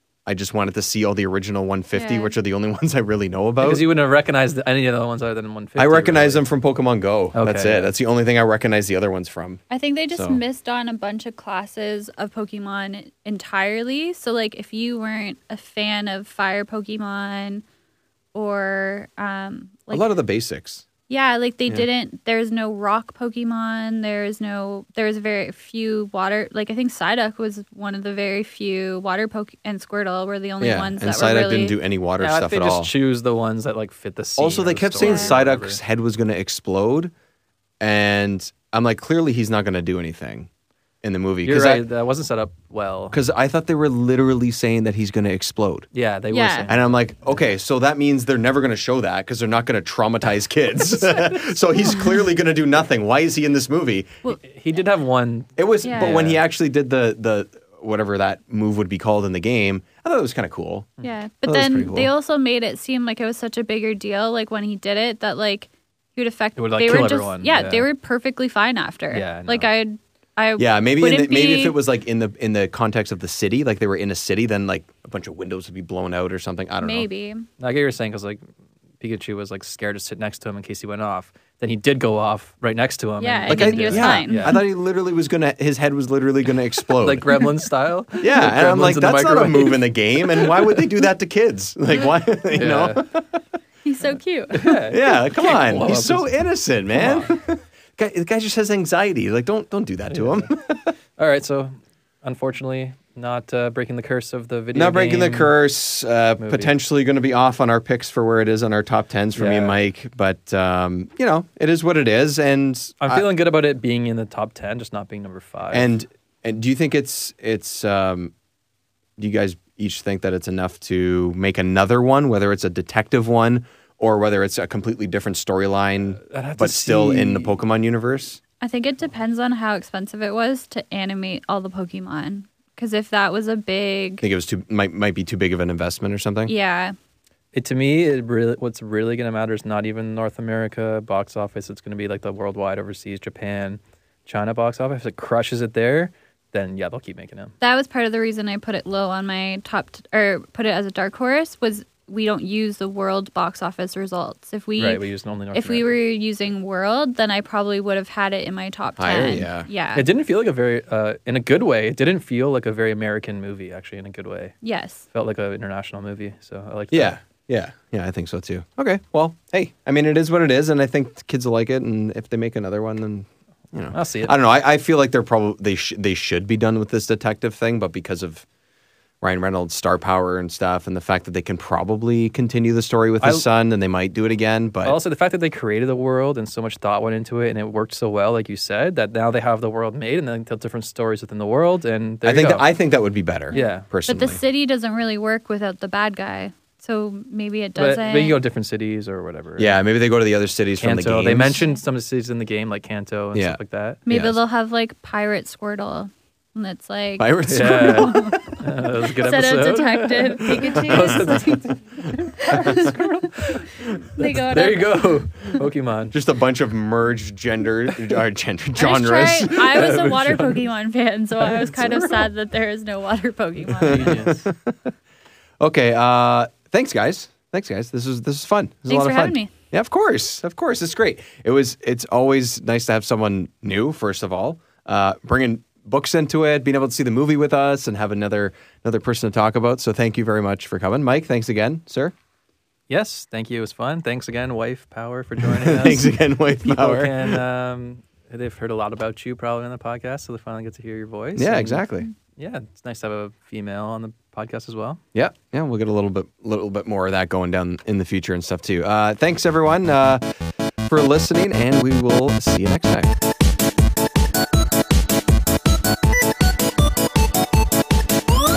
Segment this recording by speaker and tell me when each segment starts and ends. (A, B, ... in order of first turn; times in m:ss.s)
0:00.2-0:03.8 A
0:01.9-0:02.3 B
0:03.6-0:06.4 C
0:05.8-0:09.6 A
0:07.3-0:07.9 C
0:09.7-0:17.6 B
0:10.1-0:10.4 A
0:18.3-0:20.1 B
0:19.9-0:20.9 A
0:21.1-0:31.8 B
0:30.6-0:32.9 A
0:32.2-0:35.8 C
0:34.4-0:37.1 A
0:35.0-0:35.3 B
0:37.8-0:40.5 A
0:41.0-0:41.8 A
0:41.4-0:43.2 C
0:43.1-0:45.9 A
0:45.9-0:46.8 C
0:46.3-0:46.7 B
0:46.7-0:54.1 A
0:54.3-0:56.4 C
0:55.6-1:00.9 A
0:55.8-0:56.1 B
1:01.0-1:11.8 B
1:01.4-1:02.1 A
1:06.6-1:07.9 C
1:09.1-1:09.7 C
1:10.6-1:17.1 A
1:16.8-1:17.4 B
1:17.6-1:18.4 C
1:19.0-1:24.6 C
1:23.2-1:24.6 B
1:23.5-1:27.4 A
1:26.9-1:30.8 C
1:28.2-1:33.4 A
1:32.5-1:33.1 C
1:33.8-1:34.6 B
1:34.5-1:36.3 C
1:34.6-1:40.9 A
1:36.9-1:37.3 C
1:40.1-1:40.5 C
1:41.2-1:45.5 C
1:44.7-1:53.2 A
1:46.4-1:46.7 C
1:49.3-1:49.8 C
1:53.0-1:55.9 C
1:55.7-1:58.3 A
1:59.2-2:08.4 A
2:06.2-2:07.6 C
2:08.6-2:14.3 B
2:14.2-2:16.5 A
2:16.4-2:16.9 B
2:17.5-2:27.5 C
2:27.6-2:35.0 B
2:34.8-2:36.0 C
2:35.5-2:40.0 B
2:39.0-2:39.7 A
2:40.0-2:44.6 C
2:44.6-2:45.0 B
2:45.1-2:47.2 C
2:46.9-2:58.4 A
2:53.9-2:54.3 C
2:59.2-3:05.0 A
3:04.8-3:12.6 C
3:12.2-3:14.4 A
3:13.5-3:18.4 B
3:13.5-3:13.9 C
3:17.8-3:19.8 C
3:19.6-3:21.6 A
3:20.8-3:24.0 C
3:23.3-3:24.4 A
3:24.0-3:28.6 B
3:27.2-3:28.5 A
3:27.5-3:36.1 C
3:29.2-3:31.6 B
3:30.7-3:33.0 A
3:32.3-3:32.9 B
3:34.1-3:35.1 B
3:36.1-3:40.0 A
3:38.8-3:44.2 B
3:39.5-3:40.7 C
3:41.4-3:42.3 C
3:43.7-3:44.9 A
3:43.8-3:44.4 C
3:45.6-4:02.1 A
3:48.9-3:49.5 B
4:02.9-4:15.0 C
4:05.4-4:07.4 A
4:11.4-4:12.1 A
4:15.1-4:20.2 A
4:20.9-4:23.1 A